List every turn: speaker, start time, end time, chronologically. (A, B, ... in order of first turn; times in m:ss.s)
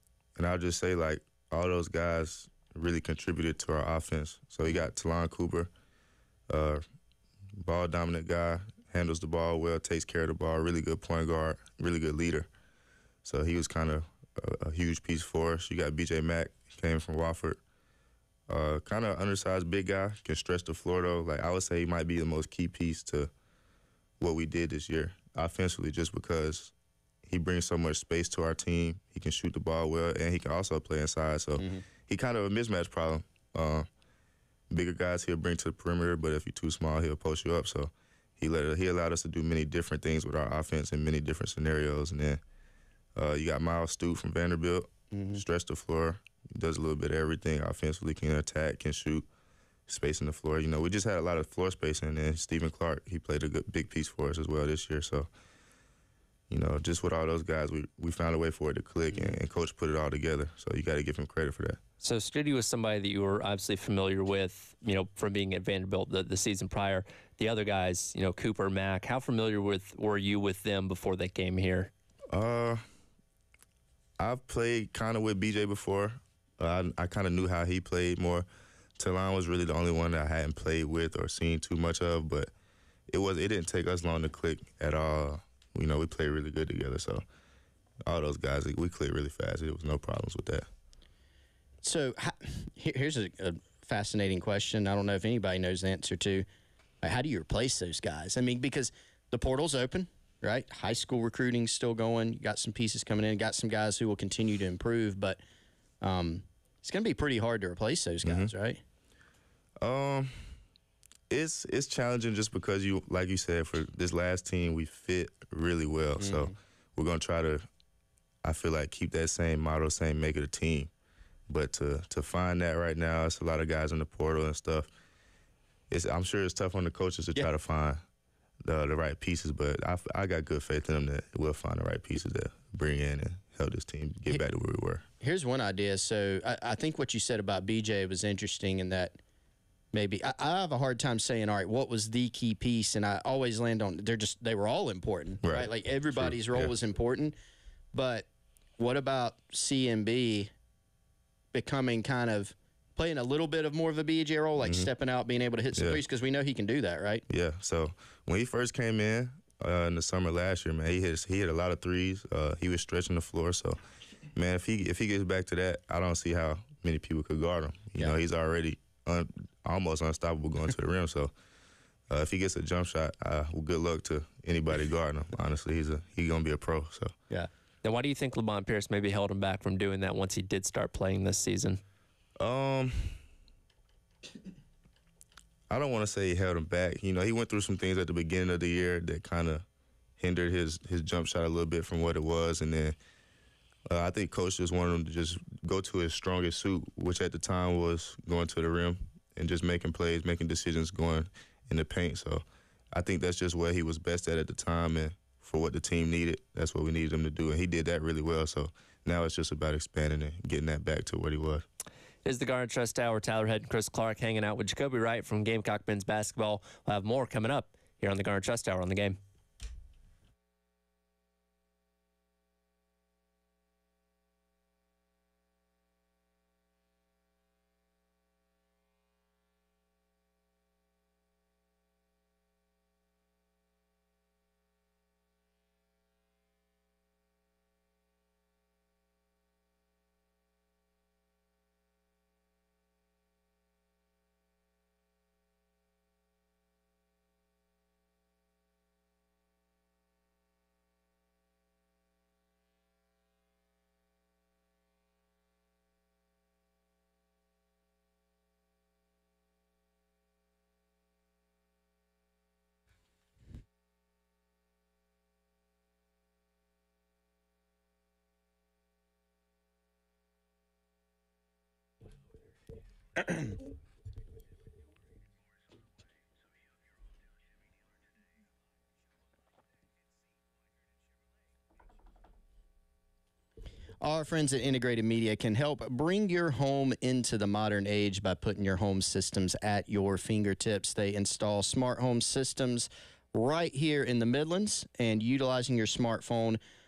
0:00.4-0:05.7 A
0:06.5-0:06.8 A
0:07.6-0:12.5 A
0:13.2-0:17.6 A
0:18.5-0:23.3 A
0:24.2-0:26.7 A
0:27.3-0:33.9 A
0:31.6-0:31.8 B
0:34.7-0:42.4 A
0:43.2-0:49.3 A
0:45.1-0:45.4 B
0:49.9-0:55.3 A
0:56.5-1:01.8 A
1:02.0-1:11.9 C
1:12.3-1:12.8 A
1:14.2-1:18.5 A
1:19.0-1:22.5 A
1:23.1-1:27.2 A
1:28.1-1:30.7 A
1:31.8-1:36.5 B
1:37.0-1:45.4 B
1:46.0-1:48.8 B
1:48.2-1:48.5 A
1:49.8-1:50.6 A
1:51.3-1:57.6 A
1:56.2-1:56.5 B
1:58.4-2:00.9 A
2:01.5-2:04.9 A
2:05.9-2:08.0 A
2:08.6-2:15.0 A
2:15.2-2:19.2 B
2:19.9-2:27.4 B
2:25.4-2:26.7 A
2:27.9-2:28.3 B
2:28.8-2:30.5 B
2:31.5-2:37.2 B
2:34.6-2:34.9 A
2:37.3-2:43.8 A
2:44.3-2:51.3 A
2:52.1-2:57.1 A
2:57.8-3:01.8 C
3:02.4-3:03.2 A
3:05.7-3:09.7 A
3:10.2-3:13.0 A
3:13.9-3:31.7 A
3:32.2-3:39.2 C
4:44.0-4:56.6 B